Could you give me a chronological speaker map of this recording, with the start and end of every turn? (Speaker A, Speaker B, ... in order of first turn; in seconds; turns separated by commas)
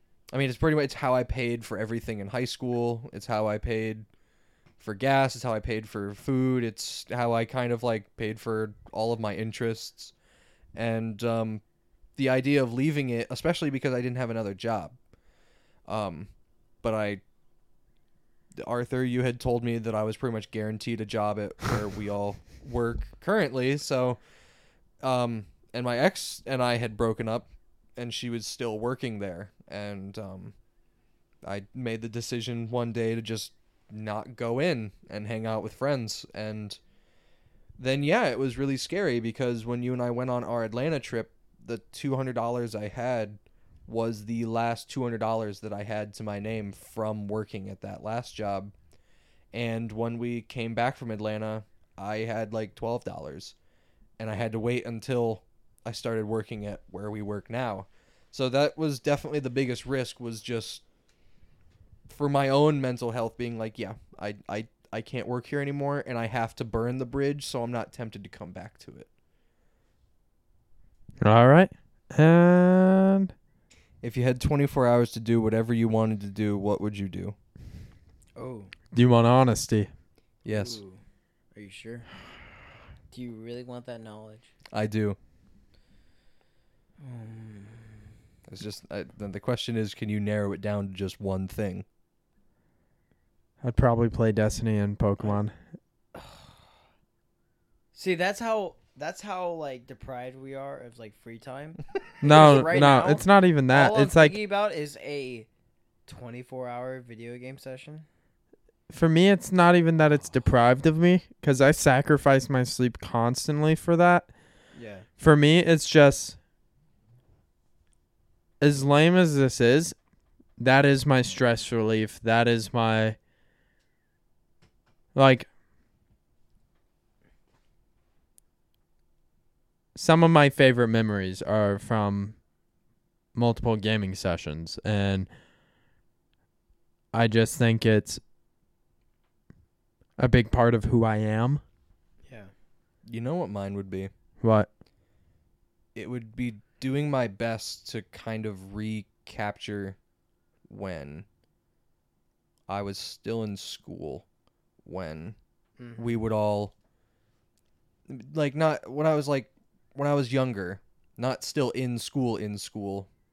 Speaker A: 0.3-4.1, Speaker A: 4.8-10.1, Speaker A: 10.8-11.6, Speaker A: 12.2-14.9, Speaker A: 15.9-16.3, Speaker A: 16.8-17.2, Speaker A: 18.6-24.2, Speaker A: 25.0-30.5, Speaker A: 31.4-36.8, Speaker A: 37.8-48.7, Speaker A: 49.5-53.5, Speaker A: 54.2-60.8, Speaker A: 62.1-69.1, Speaker B: 71.2-73.3, Speaker A: 74.0-77.3, Speaker C: 78.4-78.7, Speaker B: 78.9-79.9, Speaker A: 80.5-80.8, Speaker C: 80.5-81.0, Speaker C: 81.5-82.1, Speaker C: 83.1-84.5, Speaker A: 84.7-85.2, Speaker C: 87.0-88.1, Speaker A: 88.5-91.8, Speaker B: 93.6-95.5, Speaker C: 96.1-96.7, Speaker C: 98.0-105.5, Speaker B: 102.2-104.4, Speaker C: 106.1-108.1, Speaker B: 108.9-114.3, Speaker C: 114.7-115.1, Speaker B: 115.2-116.4, Speaker B: 118.6-120.0, Speaker B: 120.6-123.2, Speaker B: 125.2-125.5, Speaker B: 129.9-132.4, Speaker B: 133.3-135.3, Speaker B: 137.1-138.2, Speaker B: 140.2-141.6, Speaker A: 143.1-144.1, Speaker B: 144.4-144.7, Speaker A: 145.9-150.0, Speaker A: 150.7-151.2, Speaker A: 152.7-154.2, Speaker A: 154.8-155.4, Speaker C: 155.8-156.2, Speaker A: 156.0-156.7, Speaker A: 158.1-163.1